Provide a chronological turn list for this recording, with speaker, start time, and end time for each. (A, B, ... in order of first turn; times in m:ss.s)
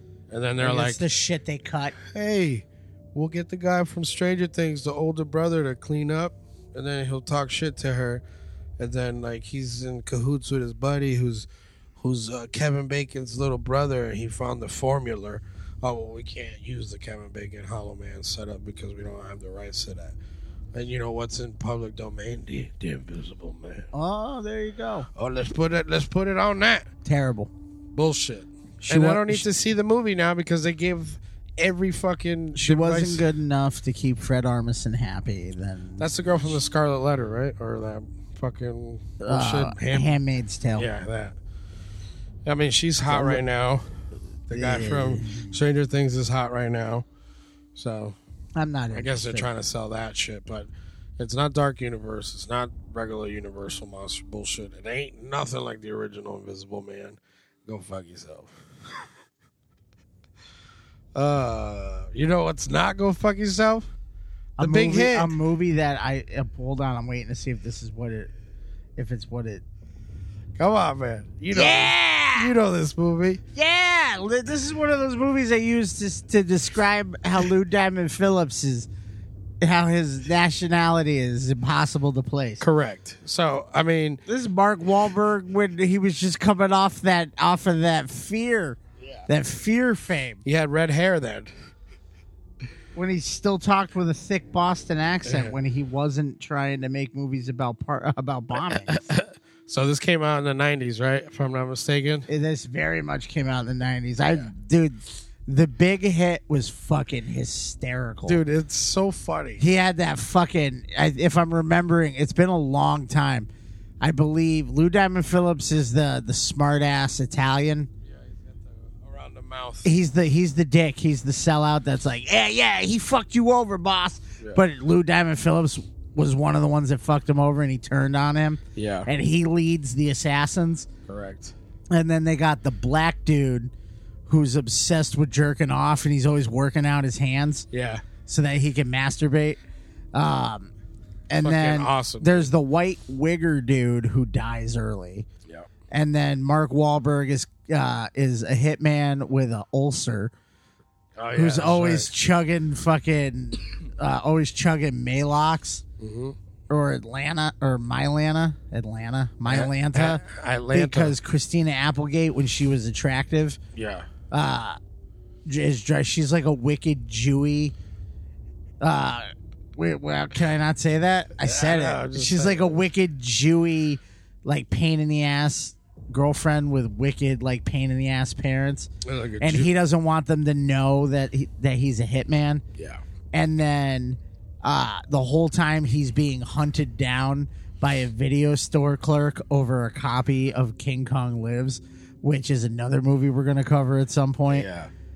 0:00.3-0:01.0 A
0:00.6-0:02.0 B
0:02.1-0:08.2 A
0:08.8-0:20.2 A
0:20.7-0:23.9 A
0:23.9-0:25.1 B
0:25.2-0:26.9 A
0:27.0-0:27.5 B
0:27.9-0:33.2 A
0:28.8-0:29.4 B
0:32.6-0:36.1 B
0:36.0-0:40.1 A
0:39.2-0:40.9 B
0:40.8-0:41.4 A
0:42.5-0:43.9 A
0:43.1-0:43.4 B
0:44.5-0:47.1 A
0:44.5-0:45.6 B
0:47.8-0:48.2 A
0:48.6-0:49.5 B
0:48.9-0:58.6 A
1:01.2-1:03.9 A
1:04.6-1:08.3 B
1:04.6-1:05.3 A
1:09.0-1:09.6 B
1:10.6-1:13.4 A
1:11.5-1:12.5 B
1:13.6-1:18.9 B
1:19.6-1:22.7 B
1:22.6-1:24.2 A
1:24.3-1:30.4 B
1:29.0-1:29.3 A
1:30.4-1:31.5 A
1:33.0-1:39.0 B
1:35.2-1:35.6 A
1:38.9-1:42.3 A
1:42.3-1:48.4 B
1:48.3-1:49.6 A
1:49.6-1:53.5 B
1:54.0-1:57.9 B
1:58.0-1:59.9 A
1:59.8-2:10.9 B
2:08.8-2:09.1 A
2:11.1-2:11.5 A
2:11.9-2:13.7 B
2:14.3-2:17.7 B
2:17.7-2:18.0 A
2:18.3-2:19.6 B
2:20.1-2:20.7 B
2:21.3-2:25.3 B
2:21.4-2:22.5 A
2:25.9-2:30.3 B
2:31.2-2:32.1 A
2:31.3-2:35.8 B
2:36.0-2:36.4 A
2:36.7-2:43.6 B
2:39.5-2:41.2 A
2:43.7-2:44.1 A
2:44.3-2:44.8 B
2:45.5-2:47.8 B
2:48.8-3:02.6 B
2:51.4-2:52.8 A
2:59.0-2:59.7 A
3:03.3-3:14.7 B
3:14.5-3:14.9 A